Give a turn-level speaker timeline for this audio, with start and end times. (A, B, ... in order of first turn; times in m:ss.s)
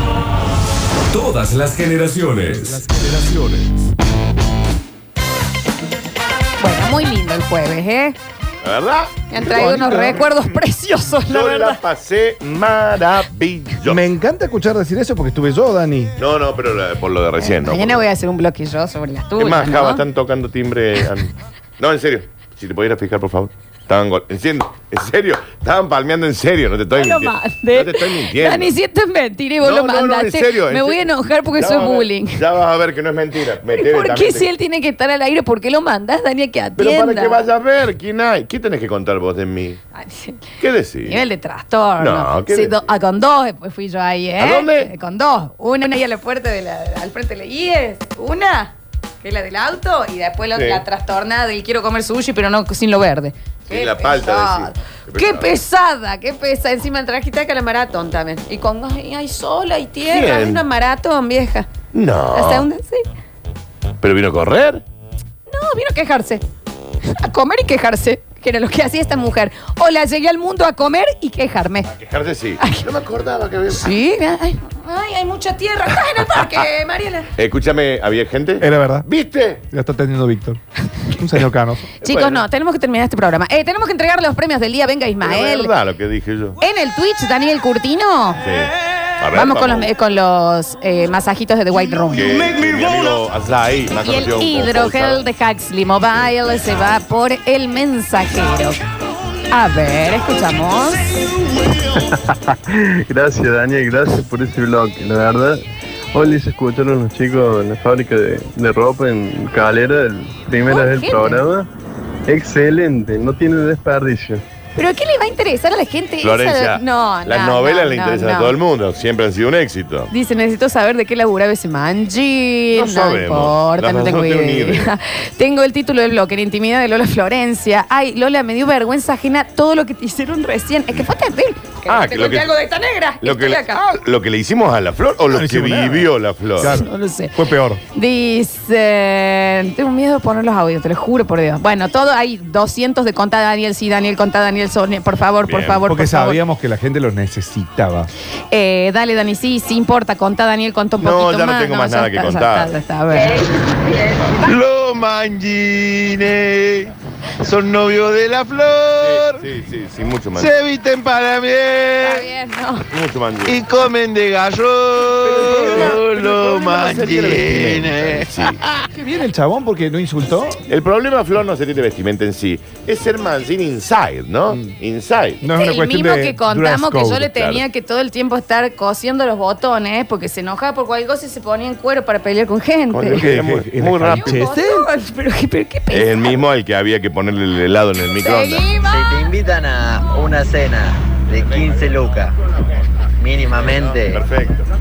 0:01.1-0:03.4 A
0:06.6-0:08.2 B
0:08.6-0:09.2 C
0:09.3-0:11.8 B
0:09.4-0:10.2 D
0:10.0-0:10.3 C
0:11.3-0:14.0 C
0:13.8-0:16.2 D
0:16.2-0:18.1 C
0:17.4-0:20.0 B
0:19.4-0:28.7 C
0:26.9-0:32.4 B
0:29.6-0:34.5 C
0:33.7-0:37.5 B
0:36.8-0:39.8 C
0:39.9-0:40.5 B
0:40.6-0:41.2 C
0:41.1-1:01.7 B
0:42.0-0:42.8 C
0:44.4-0:44.9 C
0:50.6-0:50.8 C
0:53.7-0:55.5 C
1:00.1-1:00.6 C
1:01.9-1:02.7 C
1:02.3-1:03.0 B
1:04.0-1:04.8 C
1:05.5-1:06.4 B
1:07.2-1:11.9 B
1:11.9-1:13.9 C
1:12.6-1:12.9 B
1:13.8-1:17.3 B
1:17.4-1:19.6 C
1:18.6-1:19.1 D
1:19.7-1:20.6 D
1:21.1-1:21.9 D
1:22.0-1:22.4 C
1:22.0-1:25.7 B
1:25.2-1:26.6 C
1:26.6-1:28.4 B
1:28.4-1:29.9 C
1:29.3-1:32.3 B
1:32.1-1:35.3 C
1:34.0-1:38.8 B
1:39.5-1:41.0 B
1:42.1-1:45.6 E
1:46.1-1:51.7 E
1:50.6-1:51.4 B
1:52.3-1:54.4 E
1:54.8-1:58.6 B
1:56.2-2:00.1 C
2:00.1-2:13.8 B
2:02.7-2:04.9 C
2:11.9-2:12.5 C
2:13.2-2:16.7 C
2:15.3-2:17.8 D
2:16.6-2:17.4 B
2:17.9-2:26.4 B
2:25.5-2:25.9 C
2:25.9-2:28.1 D
2:28.5-2:33.4 B
2:31.0-2:32.7 C
2:34.4-2:39.5 F
2:39.0-2:40.5 C
2:40.3-2:42.3 F
2:42.0-2:42.9 B
2:42.9-2:43.6 C
2:43.4-2:48.8 F
2:45.2-2:46.0 D
2:45.5-2:48.6 C
2:49.0-2:50.6 D
2:50.7-2:55.4 C
2:54.5-2:54.8 D
2:55.4-2:57.3 D
2:55.5-3:03.3 B
2:57.3-2:57.6 C
3:02.9-3:04.4 C
3:03.1-3:04.9 D
3:04.1-3:06.4 B
3:05.9-3:08.7 C
3:08.2-3:09.3 B
3:08.8-3:12.4 G
3:11.4-3:11.8 C
3:13.2-3:14.2 G
3:13.4-3:14.7 C